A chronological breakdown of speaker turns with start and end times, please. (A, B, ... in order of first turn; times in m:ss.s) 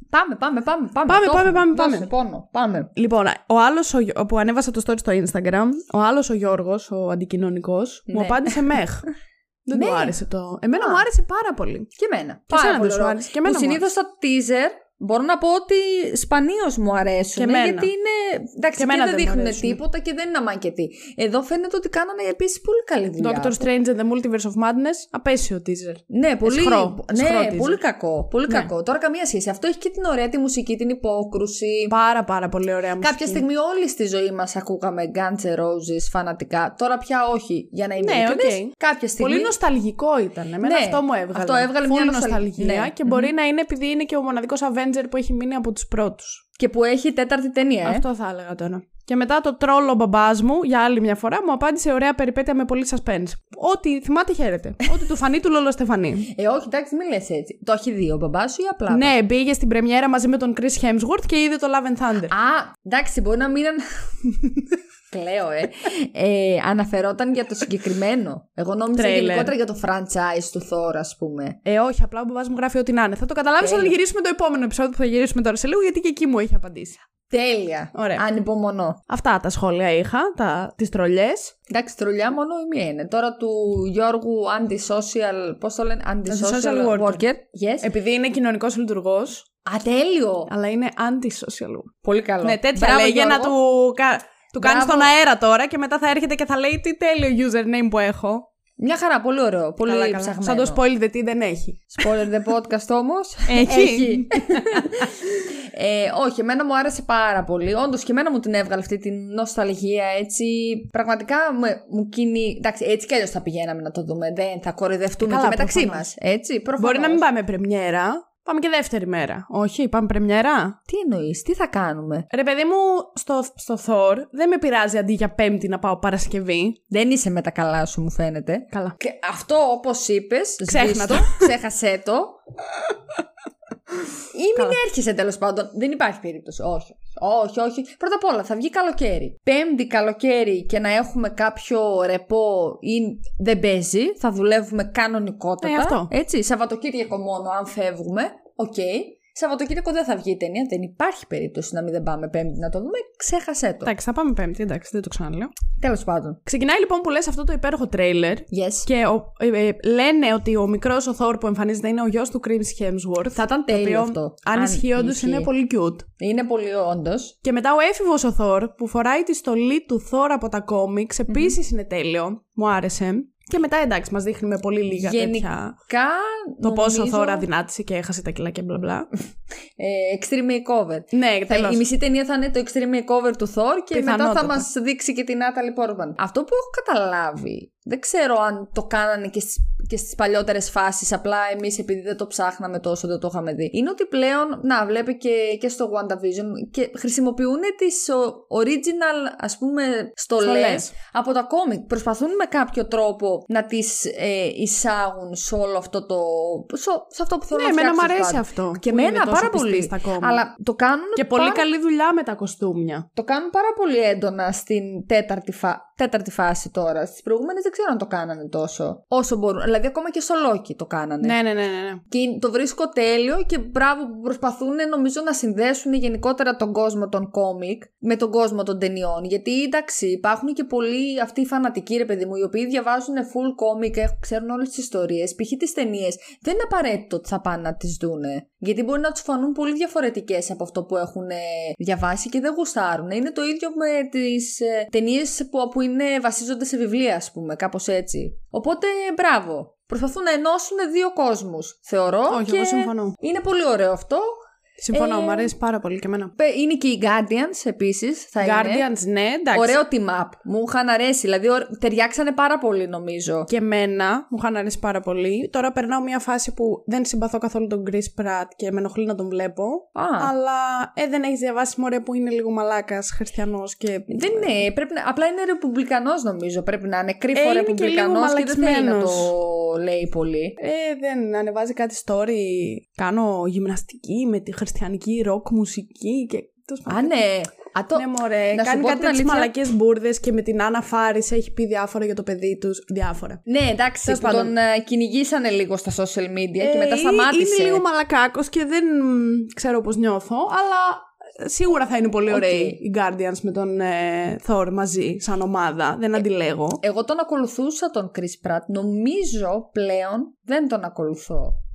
0:00.1-0:02.9 A
0:01.0-0:02.1 B
0:03.0-0:09.0 B
0:08.1-0:08.7 A
0:09.6-0:11.9 B
0:09.7-0:10.1 A
0:10.7-0:11.0 A
0:12.0-0:23.6 A
0:12.5-0:13.8 B
0:17.4-0:17.9 B
0:18.8-0:19.8 B
0:23.2-0:27.8 B
0:26.1-0:31.9 A
0:31.9-0:33.4 B
0:33.0-0:39.5 A
0:38.0-0:46.4 B
0:40.6-0:43.3 A
0:46.6-0:48.0 A
0:47.8-0:56.3 B
0:56.3-0:59.1 A
0:58.9-1:02.3 B
1:02.3-1:03.8 A
1:05.1-1:11.6 A
1:08.9-1:09.5 B
1:11.6-1:17.0 B
1:13.6-1:14.0 A
1:17.3-1:19.0 A
1:17.9-1:18.2 B
1:19.1-1:21.5 B
1:21.7-1:27.9 A
1:26.3-1:27.2 B
1:27.8-1:29.4 B
1:29.6-1:30.5 A
1:30.5-1:38.4 B
1:32.0-1:33.6 A
1:34.6-1:35.1 A
1:38.8-1:40.8 A
1:39.8-1:42.1 B
1:41.9-1:57.2 A
1:43.5-1:44.9 B
1:55.2-1:56.1 B
1:56.8-2:00.8 B
2:00.9-2:02.2 A
2:02.3-2:06.8 B
2:06.9-2:12.4 A
2:08.7-2:09.0 B
2:10.7-2:11.5 B
2:14.3-2:33.9 A
2:25.6-2:26.1 B
2:33.8-2:35.5 B
2:35.8-2:36.4 A
2:36.4-2:46.0 B
2:38.5-2:38.9 A
2:43.3-2:45.5 A
2:46.2-2:47.3 A
2:47.4-2:55.8 B
2:51.3-2:51.6 A
2:55.0-2:57.5 A
2:56.6-2:59.1 B
2:59.8-3:31.6 A
3:01.1-3:01.8 B
3:03.9-3:04.7 B
3:20.4-3:20.9 B
3:27.5-3:30.4 B
3:31.2-3:33.0 B
3:33.2-3:41.4 A
3:41.2-3:42.0 B
3:42.1-4:14.3 A
4:12.3-4:13.1 B
4:14.8-4:16.3 B
4:14.9-4:15.5 A
4:16.4-4:18.9 A
4:18.4-4:19.8 B
4:19.5-4:23.5 A
4:23.5-4:34.6 B
4:29.9-4:30.3 A
4:34.1-4:40.6 A
4:37.3-4:39.3 B
4:40.6-4:47.1 B
4:46.9-4:49.5 A
4:47.9-4:53.4 B
4:53.5-4:57.8 A
4:54.0-4:54.5 B
4:56.6-5:06.8 B
5:02.3-5:02.8 A
5:06.8-5:11.6 A